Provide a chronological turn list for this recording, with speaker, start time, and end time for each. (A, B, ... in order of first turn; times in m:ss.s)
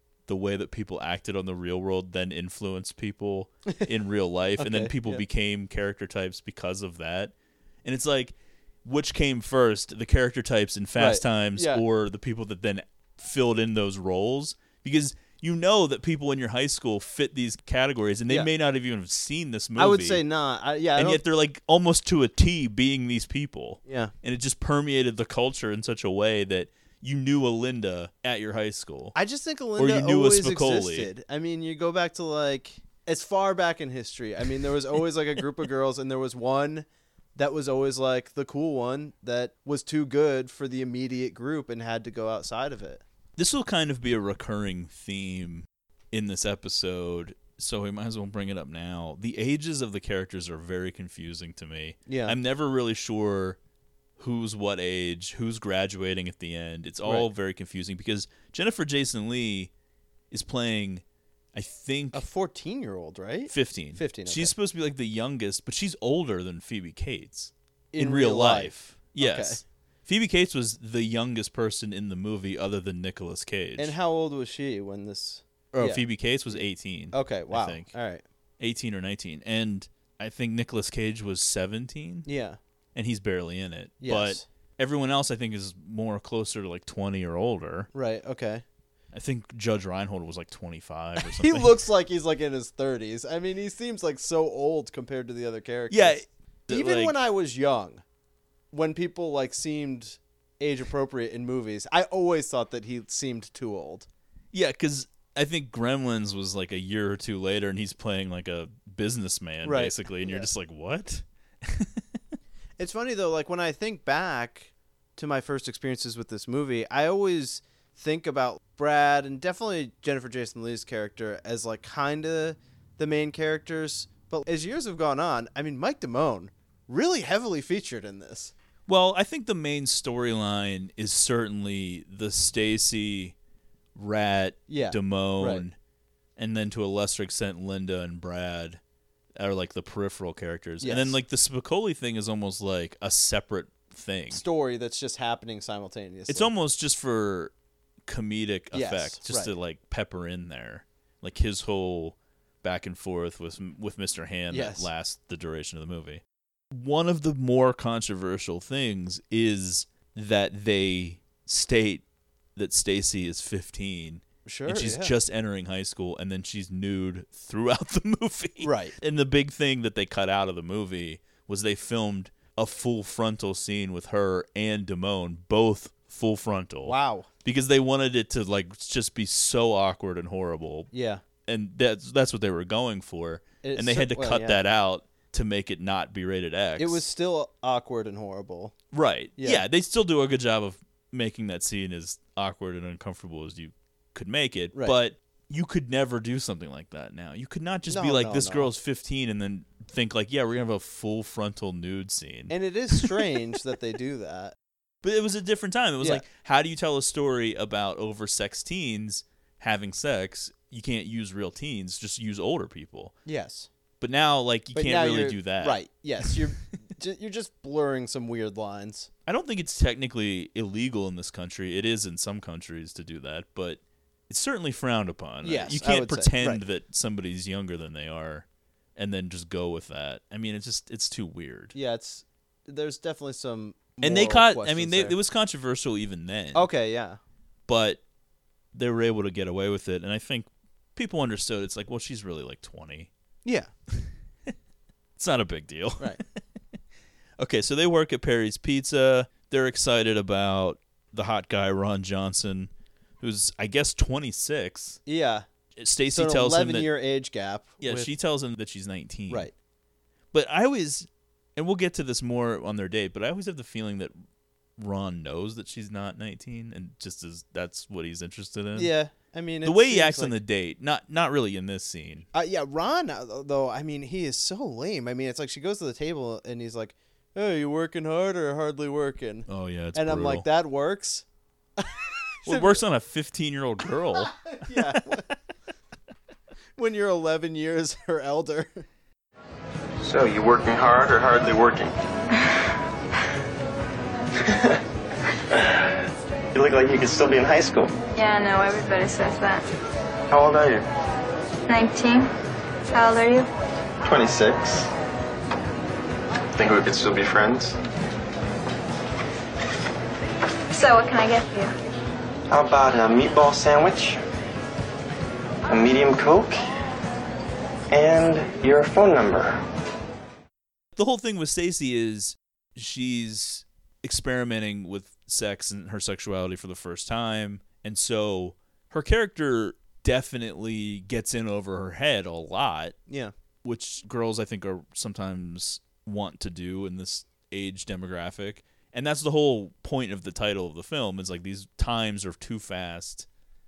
0:00.3-0:07.3 A
0:04.6-0:05.2 B
0:07.8-0:20.2 A
0:11.0-0:11.8 B
0:19.8-0:21.2 B
0:21.0-0:29.2 A
0:23.9-0:24.1 B
0:29.2-0:43.0 B
0:29.8-0:31.1 A
0:43.4-0:53.6 A
0:52.1-0:52.4 B
0:54.2-0:59.7 A
0:57.0-0:57.3 B
1:00.3-1:02.3 A
1:02.1-1:04.5 B
1:03.5-1:14.0 A
1:07.9-1:09.6 B
1:13.8-1:16.6 B
1:15.7-1:17.9 A
1:17.1-1:18.2 B
1:18.6-1:22.3 A
1:22.3-1:22.6 B
1:23.0-1:27.9 A
1:24.0-1:24.4 B
1:27.9-1:28.6 B
1:29.1-1:31.8 A
1:31.2-1:38.0 B
1:35.9-1:37.2 A
1:38.7-1:44.1 B
1:44.5-1:52.2 A
1:49.6-1:50.5 B
1:52.8-2:08.5 B
2:08.9-2:13.4 A
2:14.0-2:15.8 A
2:14.7-2:15.6 B
2:16.4-2:18.8 A
2:19.4-2:24.4 A
2:20.8-2:21.2 B
2:24.3-2:26.5 B
2:26.3-2:27.5 A
2:28.1-2:42.0 A
2:28.7-2:29.5 B
2:34.5-2:34.9 B
2:42.6-3:00.9 A
2:44.5-2:45.1 B
2:48.6-2:49.0 B
2:56.8-2:57.3 B
3:00.9-3:01.2 B
3:01.4-3:07.0 A
3:03.6-3:04.6 B
3:06.8-3:08.7 B
3:08.9-3:23.4 A
3:09.4-3:09.6 B
3:17.9-3:18.7 B
3:22.5-3:24.6 B
3:25.0-3:33.2 A
3:33.3-3:33.7 B
3:34.0-3:36.4 A
3:34.7-3:39.1 B
3:39.3-3:51.8 A
3:45.4-3:46.6 B
3:51.8-3:55.2 B
3:54.0-3:56.7 A
3:56.5-3:57.2 B
3:57.7-3:58.0 A
3:58.7-4:03.1 A
4:03.4-4:03.7 B
4:05.2-4:06.4 A
4:07.4-4:15.0 A
4:15.1-4:15.4 B
4:15.8-4:16.9 A
4:16.1-4:18.1 B
4:17.8-4:19.5 A
4:20.3-4:24.2 A
4:24.8-4:28.9 A
4:28.8-4:30.4 B
4:29.6-4:32.3 A
4:32.3-4:41.2 B
4:39.5-4:40.5 A
4:41.8-4:42.8 B
4:42.5-4:45.2 A
4:44.4-4:45.2 B
4:46.8-4:48.8 B
4:50.0-4:52.0 C
4:54.4-4:54.8 C
4:55.5-4:56.0 C
4:56.5-4:57.9 C
4:58.2-4:59.6 D
5:00.3-5:00.9 C
5:01.7-5:02.3 D
5:02.9-5:03.5 D
5:04.0-5:04.9 C
5:06.6-5:07.8 C
5:10.7-5:11.7 D
5:12.5-5:14.2 C
5:15.7-5:16.7 C
5:17.9-5:19.6 C
5:21.0-5:33.0 A
5:33.1-5:33.3 B
5:33.6-5:43.3 A